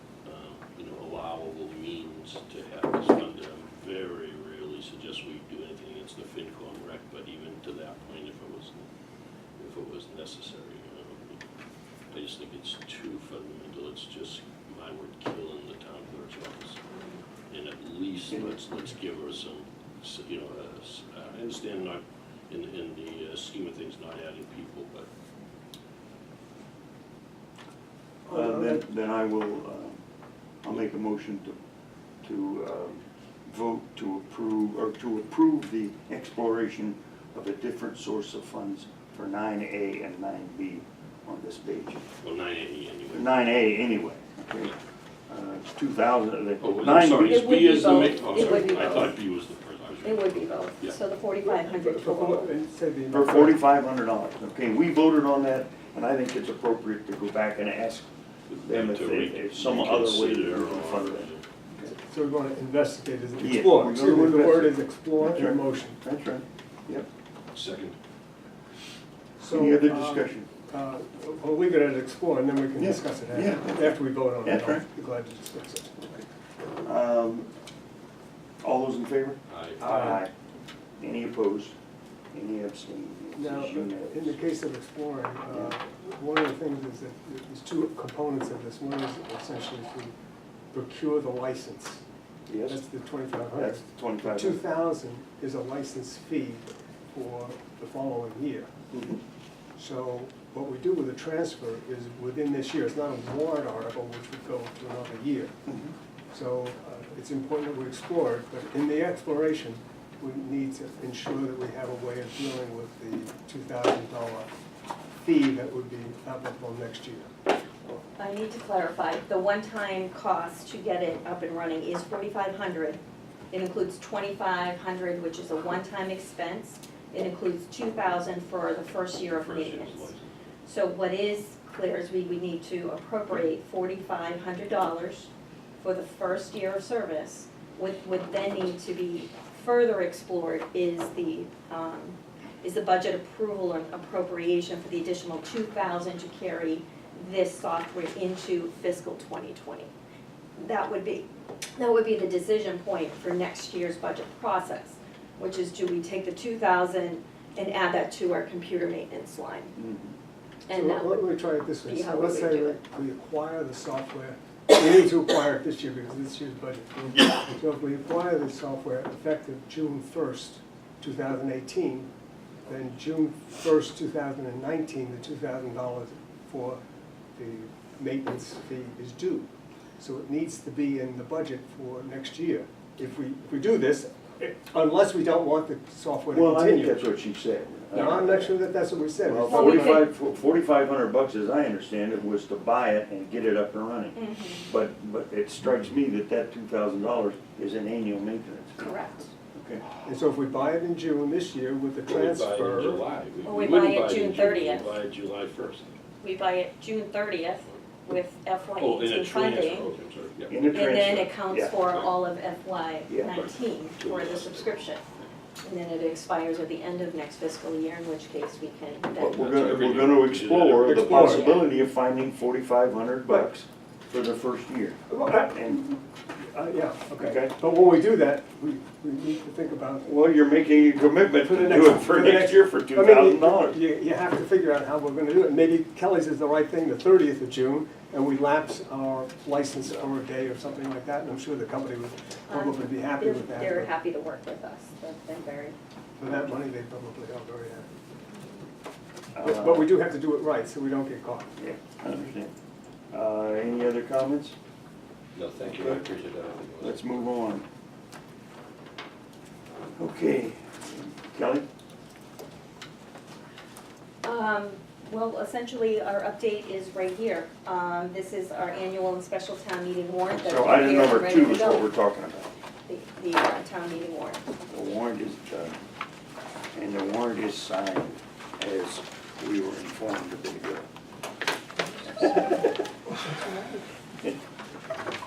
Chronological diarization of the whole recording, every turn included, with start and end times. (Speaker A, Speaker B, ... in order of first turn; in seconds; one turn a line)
Speaker A: 0.2-8.9
Speaker A: 9.6-11.4
Speaker A: 12.1-16.8
Speaker A: 17.5-25.1
Speaker B: 28.3-28.8
Speaker C: 28.3-30.0
Speaker C: 30.6-31.6
Speaker C: 32.2-42.0
Speaker A: 42.2-43.4
Speaker C: 43.1-44.7
Speaker C: 45.3-47.5
Speaker A: 46.6-51.0
Speaker D: 47.1-49.2
Speaker D: 50.0-52.5
Speaker B: 51.5-53.6
Speaker C: 53.1-58.1
Speaker A: 58.5-61.5
Speaker C: 58.6-61.9
Speaker B: 61.8-66.0
Speaker C: 63.4-67.1
Speaker A: 67.5-68.0
Speaker B: 69.4-76.1
Speaker C: 69.4-70.5
Speaker C: 72.8-73.9
Speaker C: 74.4-74.8
Speaker C: 76.8-77.5
Speaker C: 78.6-80.3
Speaker A: 79.5-79.9
Speaker B: 79.8-80.2
Speaker C: 81.0-81.7
Speaker C: 82.3-84.4
Speaker B: 83.4-90.1
Speaker B: 90.7-92.0
Speaker C: 92.5-92.8
Speaker B: 92.7-98.7
Speaker C: 93.5-94.6
Speaker C: 98.9-99.2
Speaker B: 99.8-105.6
Speaker B: 106.3-114.5
Speaker B: 115.2-117.3
Speaker D: 118.2-123.0
Speaker D: 123.5-130.1
Speaker A: 129.3-130.3
Speaker D: 130.7-149.9
Speaker D: 150.6-159.8
Speaker C: 159.8-160.2
Speaker D: 160.7-161.3
Speaker B: 160.7-172.1
Speaker D: 161.8-162.8
Speaker B: 172.7-176.8
Speaker B: 177.4-179.5
Speaker B: 180.0-187.0
Speaker C: 186.3-188.5
Speaker B: 187.9-190.1
Speaker C: 189.3-198.9
Speaker D: 189.5-190.1
Speaker D: 194.2-194.7
Speaker D: 198.8-199.3
Speaker C: 199.5-199.8
Speaker B: 200.0-203.0
Speaker A: 202.1-205.9
Speaker D: 203.4-205.0
Speaker D: 206.2-209.9
Speaker A: 208.8-210.8
Speaker C: 210.5-211.8
Speaker D: 210.7-215.0
Speaker A: 211.9-212.1
Speaker C: 213.1-213.5
Speaker A: 213.2-215.3
Speaker D: 215.6-219.4
Speaker C: 219.2-225.0
Speaker A: 219.3-221.7
Speaker B: 220.8-221.7
Speaker B: 225.1-226.0
Speaker C: 225.5-225.8
Speaker B: 226.5-230.1
Speaker C: 227.2-227.5
Speaker C: 230.0-233.8
Speaker B: 231.5-243.9
Speaker D: 242.5-245.8
Speaker B: 246.2-247.9
Speaker C: 249.3-249.9
Speaker B: 249.4-251.5
Speaker C: 251.6-252.5
Speaker C: 253.1-254.6
Speaker A: 255.3-257.3
Speaker C: 255.8-256.0
Speaker C: 256.8-257.7
Speaker C: 260.0-261.7
Speaker D: 264.2-271.9
Speaker C: 270.4-272.5
Speaker D: 272.9-274.4
Speaker C: 274.7-275.8
Speaker C: 276.7-280.9